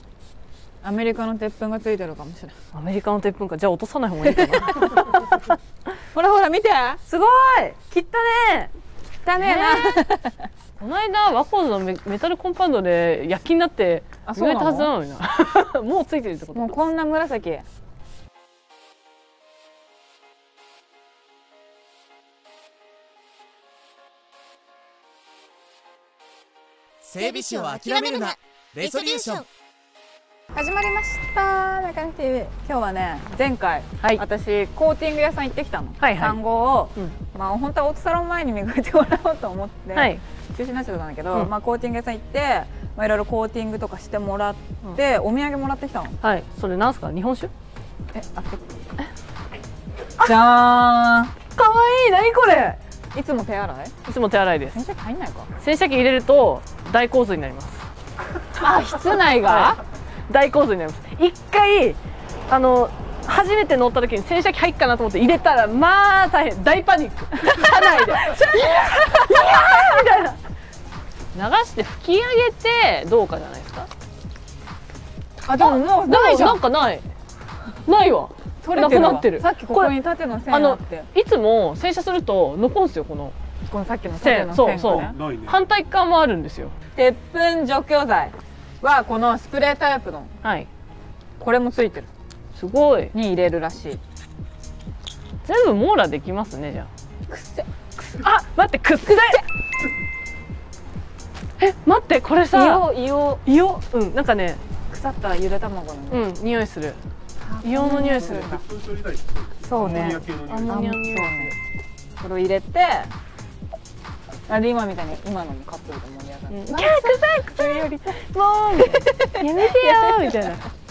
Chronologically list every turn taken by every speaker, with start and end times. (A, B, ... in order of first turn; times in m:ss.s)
0:00.8-0:02.5 A
0:02.7-0:05.5 B
0:04.2-0:05.3 A
0:06.1-0:07.0 A
0:07.1-0:08.7 B
0:09.2-0:10.5 A
0:09.4-0:10.0 B
0:10.8-0:16.8 B
0:14.2-0:14.9 A
0:16.5-0:17.6 A
0:27.0-0:29.4 C
0:30.5-0:46.2 A
0:36.0-0:36.4 B
0:39.9-0:40.2 B
0:46.2-0:47.5 B
0:48.1-0:48.7 A
0:50.2-0:51.3 A
0:51.5-0:52.8 B
0:53.1-0:53.9 A
0:54.0-0:54.8 B
0:54.7-0:55.5 A
0:55.6-0:57.9 B
0:58.6-0:59.8 A
0:59.2-0:59.8 B
1:00.3-1:10.4 B
1:07.5-1:10.1 A
1:11.3-1:13.9 B
1:15.4-1:16.6 A
1:15.6-1:17.0 B
1:17.8-1:19.9 B
1:18.6-1:21.1 A
1:20.5-1:23.3 B
1:23.7-1:25.2 A
1:24.2-1:26.7 B
1:27.0-1:30.3 A
1:30.4-1:30.7 B
1:31.4-1:32.1 A
1:32.5-1:33.1 B
1:33.1-1:34.0 A
1:35.4-1:36.9 B
1:37.3-1:37.7 A
1:38.1-1:39.4 B
1:41.6-1:42.9 B
1:42.5-1:43.4 A
1:43.4-1:44.6 B
1:44.9-1:46.3 A
1:46.1-1:47.0 B
1:47.4-1:48.6 A
1:47.6-1:48.6 B
1:48.7-1:50.6 D
1:49.6-1:51.5 A
1:49.8-1:51.5 B
1:52.2-1:53.1 A
1:54.5-1:58.2 A
1:56.5-2:00.6 B
1:58.8-2:00.6 A